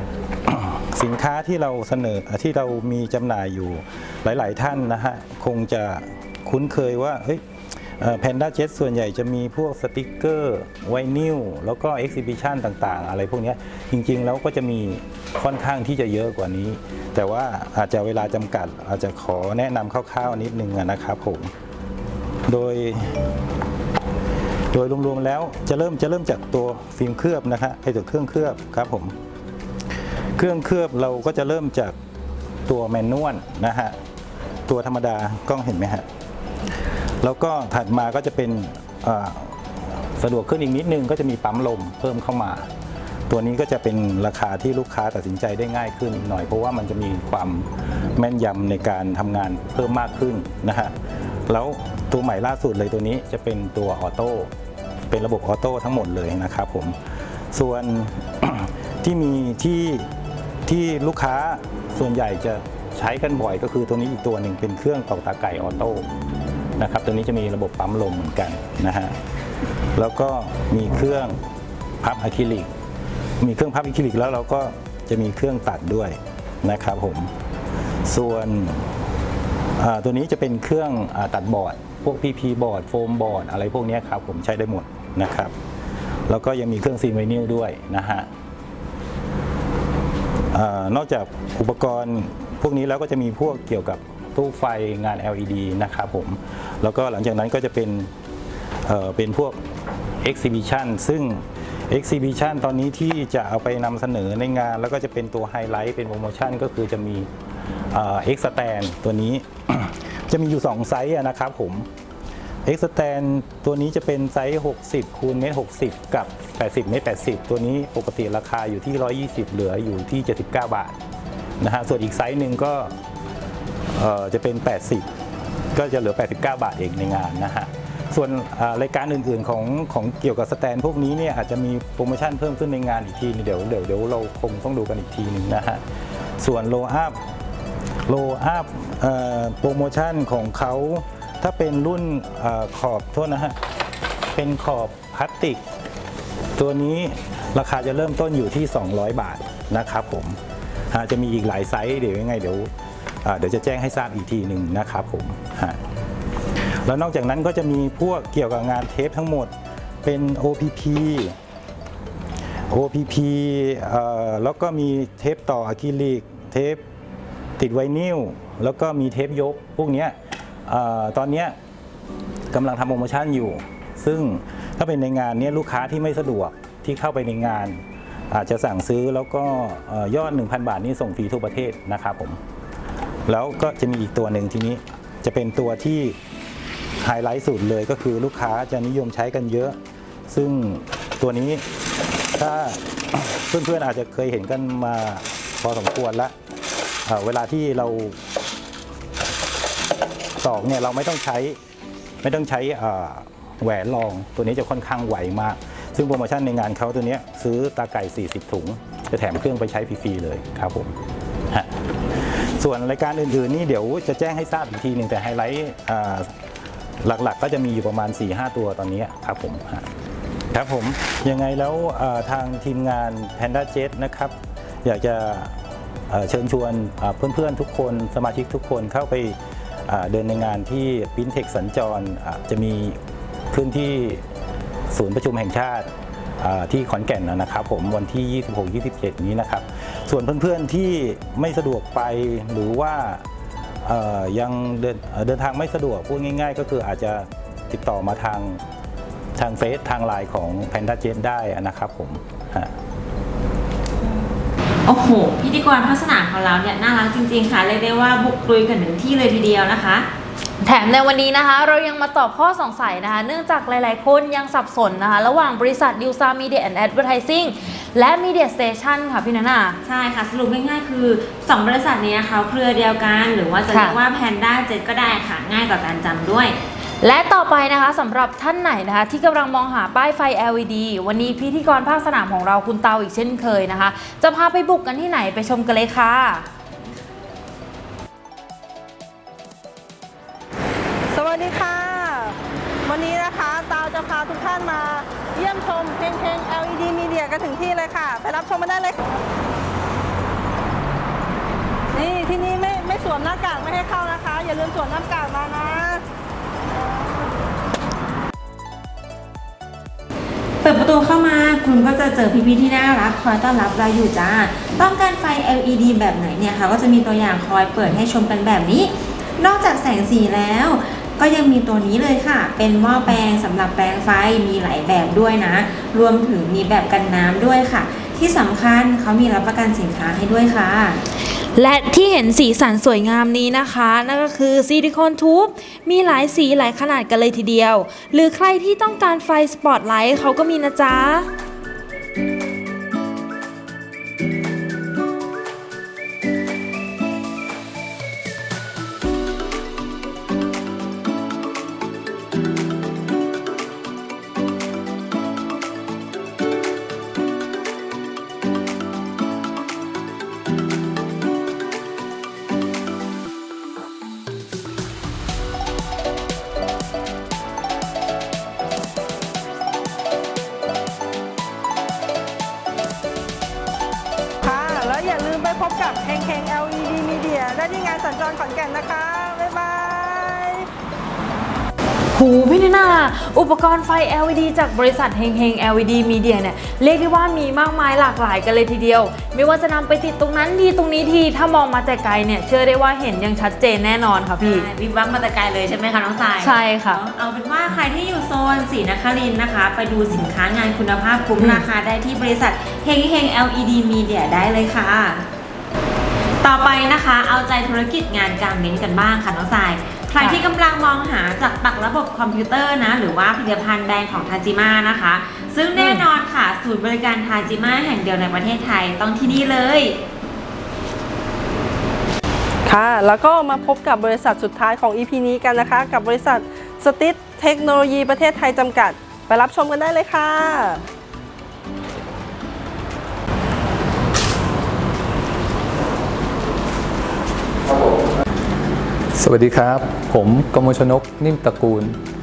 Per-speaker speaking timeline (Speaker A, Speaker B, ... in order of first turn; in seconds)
Speaker A: 0.5-7.4, 8.0-21.5, 22.5-23.2, 24.7-29.1, 30.4-32.0, 32.7-34.0, 34.7-36.1, 37.2-42.7, 43.3-50.9, 51.5-54.5, 55.1-57.0, 57.5-60.1, 60.7-66.1, 66.8-69.2, 70.0-71.4, 72.0-72.7, 73.4-77.3, 78.1-78.9, 79.8-85.5, 86.3-88.3, 90.5-98.1, 98.9-99.6, 100.2-107.3, 107.9-111.9, 112.7-121.0, 121.6-122.9, 123.9-125.1, 125.7-135.8, 136.4-137.2, 138.1-143.6, 144.3-145.6, 146.6-150.4, 150.9-152.7, 153.2-155.8, 156.8-159.5, 160.0-161.3, 162.7-166.8, 167.6-170.2, 170.7-171.6, 172.5-177.8, 178.3-182.4, 183.3-186.2, 187.0-189.8, 190.3-191.7, 192.3-196.3, 197.1-198.2, 200.4-201.6, 202.2-211.0, 211.5-216.3, 217.0-219.9, 220.5-225.5, 226.1-233.0, 233.5-234.2, 234.9-243.2, 243.8-248.6, 249.4-252.8
Speaker B: 254.9-260.1, 269.9-276.6, 310.6-331.0, 394.4-405.2, 406.4-420.0
Speaker C: 260.6-269.8, 273.7-274.0, 277.0-286.5, 331.4-341.3, 382.1-394.7, 396.4-397.0, 401.4-401.7, 415.8-416.1
Speaker D: 291.1-299.2, 301.9-306.0, 374.4-380.7, 422.7-430.8
Speaker E: 439.1-442.0